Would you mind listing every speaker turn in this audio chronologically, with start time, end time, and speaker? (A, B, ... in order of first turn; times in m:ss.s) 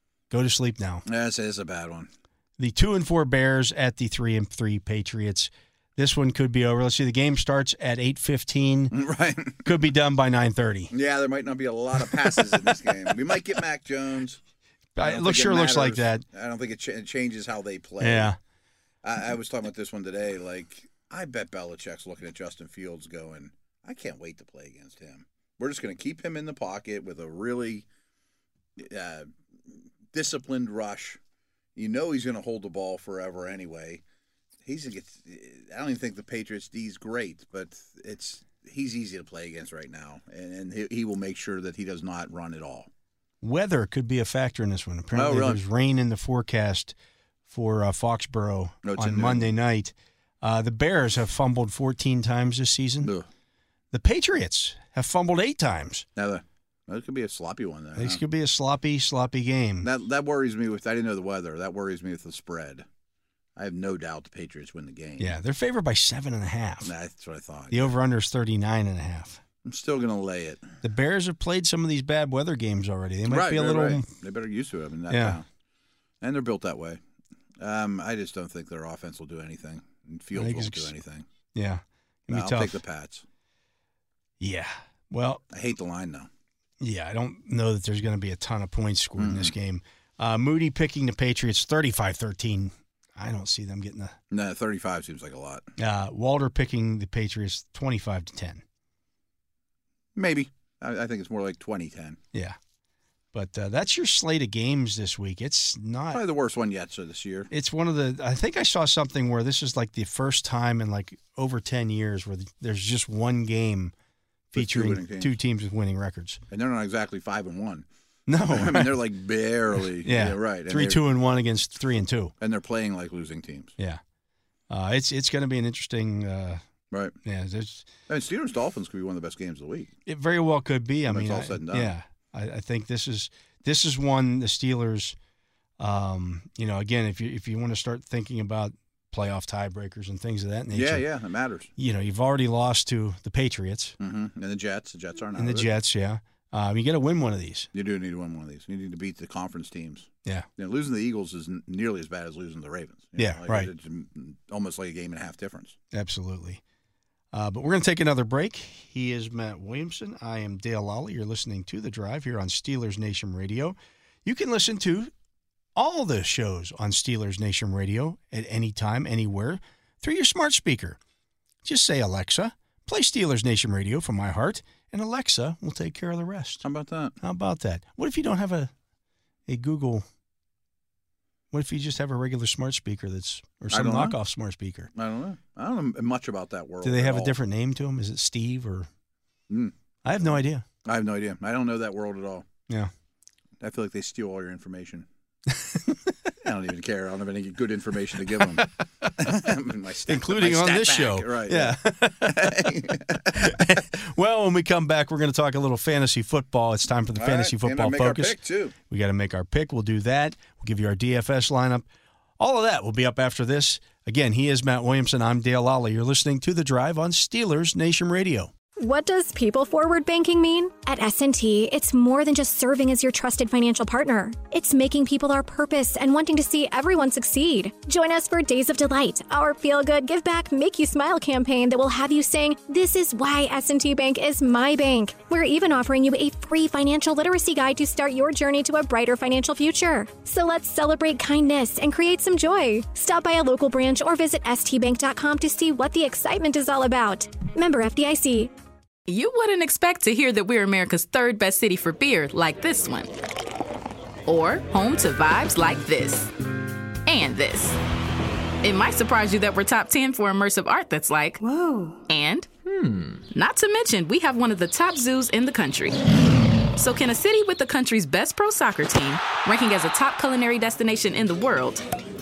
0:00.3-0:01.0 A
0:01.0-0:02.1 B
0:02.6-0:08.9 A
0:08.9-0:09.7 B
0:09.6-0:10.9 A
0:10.9-0:14.4 B
0:15.0-0:16.2 A
0:15.0-0:18.3 B
0:18.0-0:18.4 A
0:19.0-0:27.8 B
0:28.8-0:31.2 B
0:31.8-0:34.0 B
0:34.6-0:42.9 B
0:43.4-0:46.9 A
0:45.1-0:45.6 B
0:47.5-0:53.1 A
0:48.8-0:49.5 B
0:53.9-0:56.0 A
0:56.2-0:58.2 B
0:58.0-0:59.9 A
0:59.8-1:02.8 B
1:03.6-1:05.4 B
1:05.2-1:06.9 A
1:06.8-1:07.9 B
1:07.7-1:09.4 A
1:09.6-1:10.7 B
1:10.8-1:14.1 A
1:13.2-1:15.4 B
1:15.1-1:15.4 A
1:16.2-1:17.0 B
1:17.6-1:21.2 B
1:20.3-1:20.9 A
1:21.5-1:22.8 A
1:22.3-1:23.2 B
1:24.4-1:25.4 A
1:25.5-1:26.3 B
1:26.8-1:34.2 A
1:29.2-1:29.5 B
1:34.3-1:35.7 B
1:35.8-1:38.6 A
1:40.2-1:42.2 B
1:42.3-1:42.6 A
1:43.3-1:46.2 A
1:46.1-1:47.5 B
1:47.5-1:53.9 A
1:54.5-1:56.4 A
1:54.5-1:55.3 B
1:56.5-1:57.8 B
1:58.3-1:59.0 A
1:58.5-2:01.0 B
2:00.0-2:02.3 A
2:02.4-2:03.7 B
2:04.7-2:06.6 A
2:07.2-2:07.9 A
2:08.1-2:09.9 B
2:10.0-2:15.2 A
2:11.1-2:11.9 B
2:15.8-2:21.0 A
2:20.7-2:21.7 B
2:21.8-2:24.0 A
2:24.0-2:25.7 B
2:25.3-2:27.7 A
2:27.7-2:35.8 B
2:33.2-2:33.7 A
2:35.9-2:36.6 A
2:37.3-2:45.1 A
2:45.8-2:51.0 A
2:51.6-2:56.6 A
2:56.6-2:57.2 B
2:57.2-2:58.7 A
2:59.5-3:00.0 A
3:01.5-3:04.9 A
3:03.7-3:04.2 B
3:05.0-3:07.4 B
3:06.8-3:08.9 A
3:09.5-3:09.7 B
3:10.0-3:10.6 A
3:10.8-3:12.5 B
3:13.6-3:15.0 B
3:15.5-3:15.9 A
3:16.4-3:23.6 B
3:18.4-3:19.5 A
3:20.1-3:22.8 A
3:23.3-3:31.8 A
3:27.1-3:28.7 B
3:32.4-3:38.5 A
3:38.8-4:08.5 C
4:09.1-4:13.1 D
4:14.3-4:16.3 D
4:17.0-4:17.8 D
4:18.6-4:22.7 D
4:23.2-4:31.8 D